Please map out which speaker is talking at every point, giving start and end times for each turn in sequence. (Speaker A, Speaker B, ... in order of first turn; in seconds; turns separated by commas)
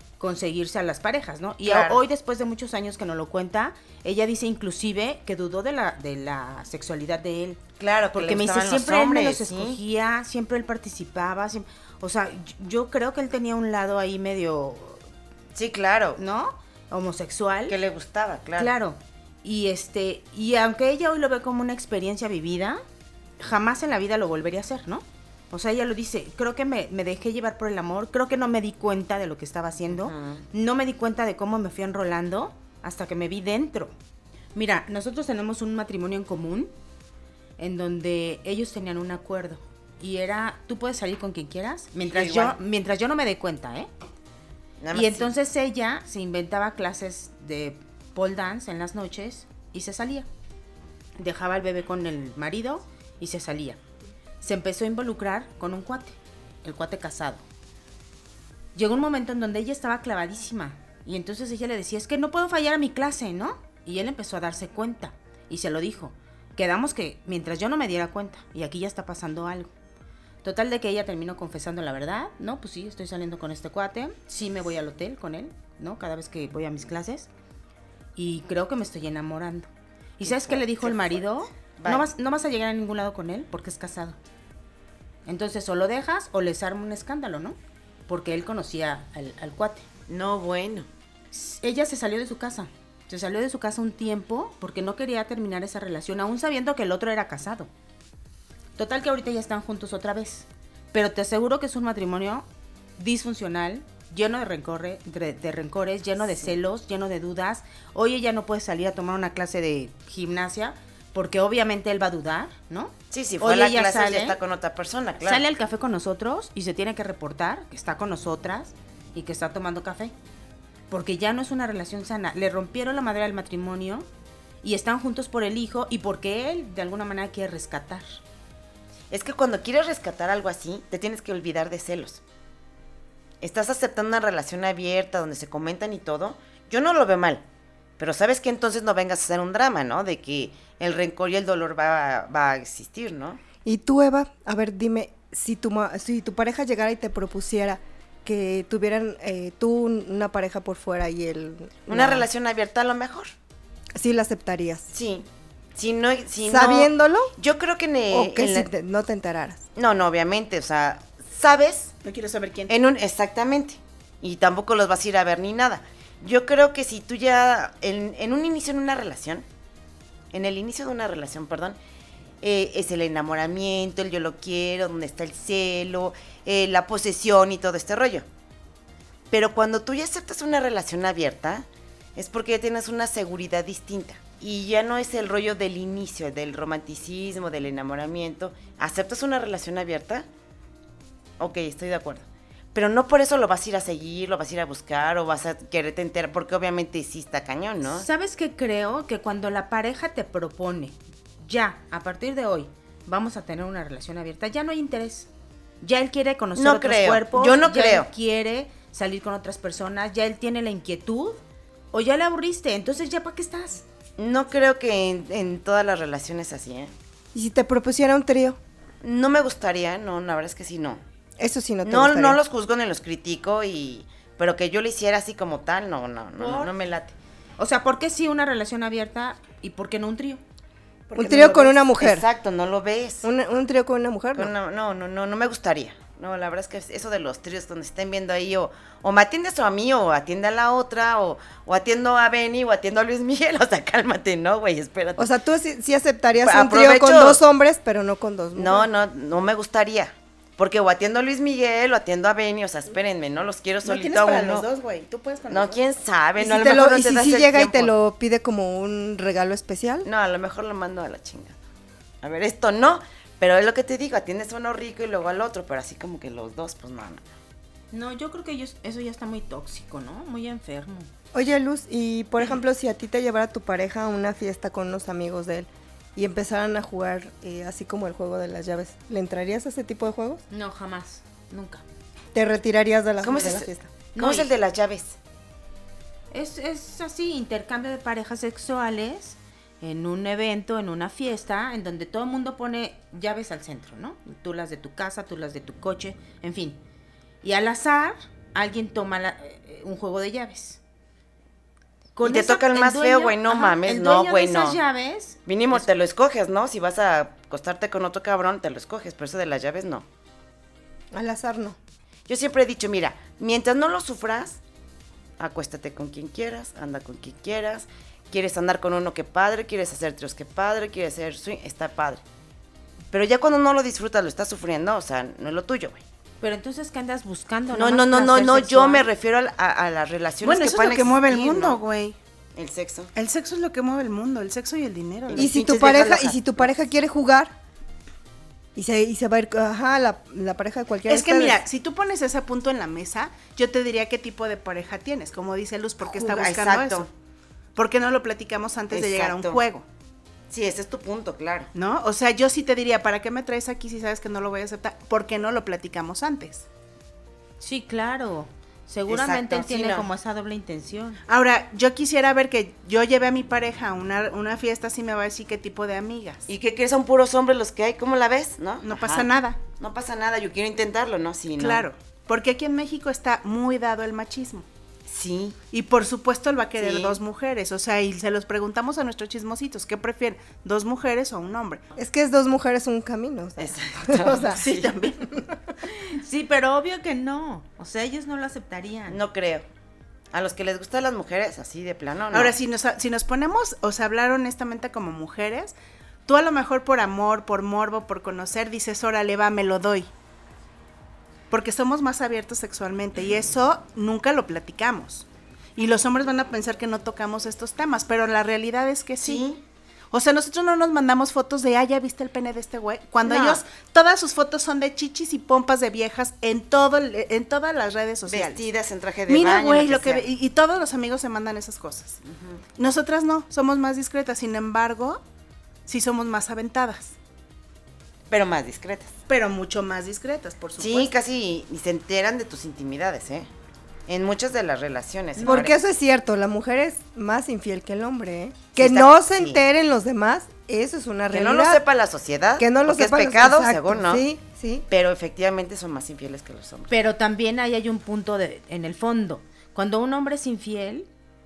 Speaker A: 0.2-7.6, Speaker B: 1.6-2.0, Speaker B: 7.8-9.8, Speaker A: 8.1-15.0, Speaker B: 15.6-16.2, Speaker A: 16.2-17.8, Speaker B: 17.7-18.7, Speaker A: 18.6-22.8, Speaker A: 23.4-33.9, Speaker B: 29.9-30.4, Speaker A: 34.5-36.7, Speaker A: 37.6-43.9, Speaker B: 42.0-42.6, Speaker B: 44.8-45.3, Speaker A: 44.9-50.3, Speaker A: 51.2-53.8, Speaker A: 54.4-57.4, Speaker A: 58.8-69.7, Speaker A: 70.4-77.3, Speaker A: 78.2-84.2, Speaker B: 80.2-81.2, Speaker B: 81.8-82.1, Speaker A: 85.3-87.6, Speaker A: 88.1-89.8, Speaker B: 90.1-90.9, Speaker A: 91.3-97.7, Speaker A: 98.8-102.5, Speaker A: 103.0-114.4, Speaker B: 113.1-115.5, Speaker A: 115.2-120.1, Speaker A: 120.9-124.1, Speaker A: 124.6-128.2, Speaker B: 129.1-132.2, Speaker B: 133.4-137.4, Speaker B: 138.0-143.4, Speaker C: 143.7-152.3, Speaker B: 151.9-153.3, Speaker C: 153.9-154.9, Speaker B: 154.9-158.7, Speaker C: 156.4-157.3, Speaker C: 158.1-159.7, Speaker B: 159.8-161.9, Speaker D: 162.0-162.7, Speaker B: 162.7-169.4, Speaker B: 170.3-171.8, Speaker B: 172.4-178.3, Speaker B: 179.3-190.3, Speaker B: 191.4-198.1, Speaker A: 197.9-205.3, Speaker A: 205.8-211.4, Speaker B: 206.6-208.1, Speaker A: 211.9-213.8, Speaker B: 214.2-216.9, Speaker C: 217.3-218.6, Speaker B: 219.0-221.0, Speaker C: 221.4-222.4, Speaker B: 221.8-227.1, Speaker A: 226.4-226.7, Speaker A: 227.6-230.4, Speaker D: 231.1-231.7, Speaker C: 231.2-232.2, Speaker B: 231.4-233.3, Speaker C: 233.2-234.5, Speaker B: 234.4-245.3, Speaker C: 245.2-248.9, Speaker B: 246.4-247.4, Speaker B: 248.6-254.7, Speaker D: 253.8-255.8, Speaker B: 255.5-257.9, Speaker C: 256.4-260.1, Speaker B: 260.1-261.6, Speaker B: 262.2-267.3, Speaker A: 267.9-271.1, Speaker C: 271.3-280.4, Speaker A: 280.5-281.8, Speaker C: 282.3-283.9, Speaker B: 283.2-285.2, Speaker A: 284.1-284.5, Speaker A: 286.3-296.8, Speaker A: 297.4-300.8, Speaker A: 302.2-305.9, Speaker B: 302.2-304.8, Speaker B: 305.5-310.1, Speaker C: 311.1-311.8, Speaker B: 312.3-314.6, Speaker B: 315.4-322.2, Speaker B: 323.1-326.0, Speaker A: 326.4-329.1, Speaker B: 327.7-331.8, Speaker D: 330.4-332.2, Speaker B: 332.6-333.1, Speaker D: 333.1-335.6, Speaker B: 335.3-336.7, Speaker C: 335.4-337.5, Speaker C: 338.8-341.6, Speaker D: 341.1-347.1, Speaker B: 346.0-347.1, Speaker D: 347.8-349.8, Speaker B: 348.9-349.6, Speaker B: 350.5-351.7, Speaker D: 351.8-356.7, Speaker A: 357.6-361.2, Speaker B: 359.1-360.1, Speaker D: 361.3-366.5, Speaker B: 366.5-371.9, Speaker D: 368.8-369.6, Speaker D: 371.6-374.6, Speaker B: 375.1-375.6, Speaker D: 375.7-381.8, Speaker B: 376.8-377.2, Speaker C: 382.0-384.6, Speaker B: 383.6-384.9, Speaker D: 384.5-385.3, Speaker C: 385.3-385.6, Speaker A: 386.1-389.2, Speaker B: 389.1-389.7, Speaker B: 390.3-392.6, Speaker D: 392.3-395.7, Speaker D: 396.3-400.1, Speaker D: 401.5-409.5, Speaker B: 409.2-409.6, Speaker D: 410.1-418.6, Speaker B: 413.2-413.6, Speaker B: 418.3-420.2, Speaker D: 419.3-422.2, Speaker B: 422.2-422.6, Speaker D: 422.8-425.2, Speaker D: 425.9-427.1, Speaker B: 428.3-429.1, Speaker D: 429.3-431.1, Speaker B: 430.8-433.5, Speaker B: 434.1-435.7, Speaker A: 435.4-435.7, Speaker C: 435.4-441.8, Speaker B: 438.8-439.6, Speaker B: 441.3-444.2, Speaker C: 442.6-444.9, Speaker B: 444.9-446.9, Speaker A: 446.9-451.1